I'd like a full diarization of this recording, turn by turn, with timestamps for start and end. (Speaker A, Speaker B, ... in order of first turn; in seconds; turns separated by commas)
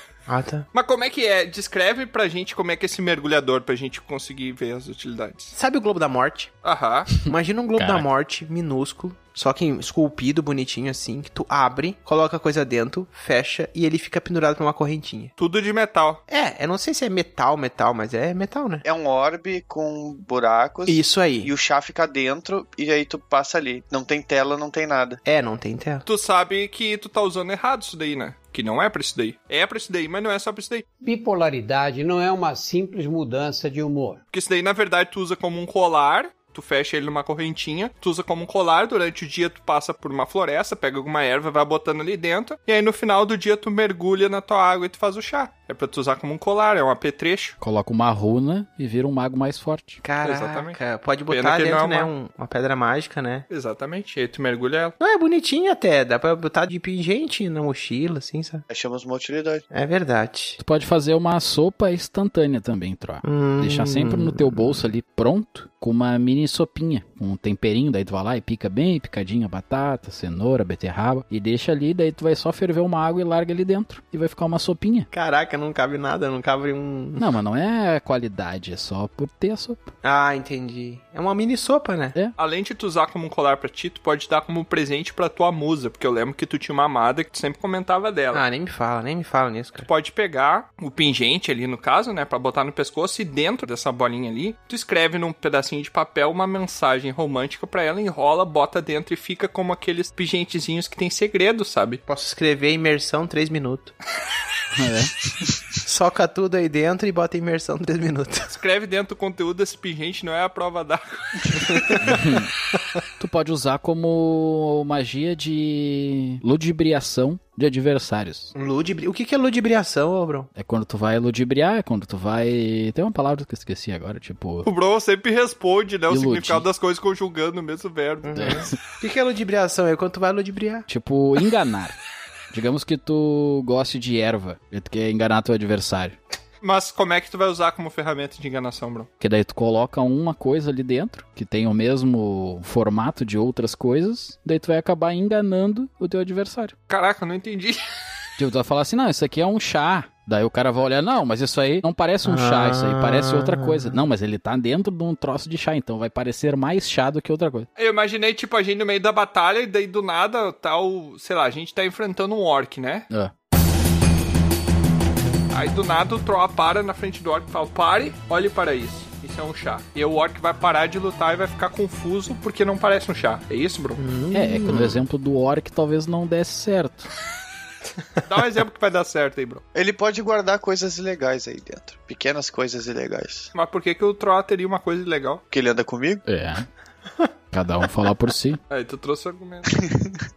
Speaker A: 0.3-0.7, Speaker B: 0.7-5.5, Speaker A: 5.6-6.5, Speaker B: 6.6-7.1, Speaker A: 7.3-15.3, Speaker C: 7.8-8.1, Speaker B: 15.4-16.2, Speaker A: 16.3-18.8, Speaker D: 18.8-25.2, Speaker A: 20.9-21.5, Speaker A: 25.3-26.1, Speaker B: 26.1-30.9, Speaker E: 31.0-34.2, Speaker B: 34.3-47.5, Speaker C: 47.6-50.0, Speaker A: 50.0-53.5, Speaker B: 50.2-50.8, Speaker B: 51.3-52.1, Speaker B: 53.5-55.0, Speaker A: 55.0-58.6, Speaker D: 58.7-59.6, Speaker A: 59.7-60.6, Speaker C: 60.6-75.1, Speaker A: 63.2-64.8, Speaker A: 75.1-77.2, Speaker C: 77.2-79.9, Speaker A: 80.0-82.1, Speaker B: 82.4-88.4, Speaker A: 88.3-89.9, Speaker B: 89.8-102.0, Speaker A: 102.1-103.9, Speaker C: 104.8-105.1, Speaker A: 105.8-108.5, Speaker B: 108.5-111.9, Speaker C: 112.0-112.5, Speaker C: 113.2-118.5, Speaker A: 118.5-120.5, Speaker C: 120.6-124.7, Speaker B: 124.7-128.3, Speaker C: 126.1-126.7, Speaker A: 128.2-130.9, Speaker C: 128.3-128.8, Speaker C: 130.9-132.0, Speaker C: 132.5-136.2, Speaker B: 136.6-139.1, Speaker C: 139.2-146.7, Speaker B: 146.9-147.8, Speaker C: 148.4-157.7, Speaker A: 152.2-153.9, Speaker B: 157.8-163.1, Speaker B: 165.5-174.0, Speaker A: 174.0-175.0, Speaker C: 174.3-177.1, Speaker B: 178.2-179.6, Speaker D: 179.7-183.5, Speaker B: 183.5-185.4, Speaker D: 185.5-186.2, Speaker C: 186.3-186.7, Speaker C: 187.5-188.6, Speaker B: 188.7-189.8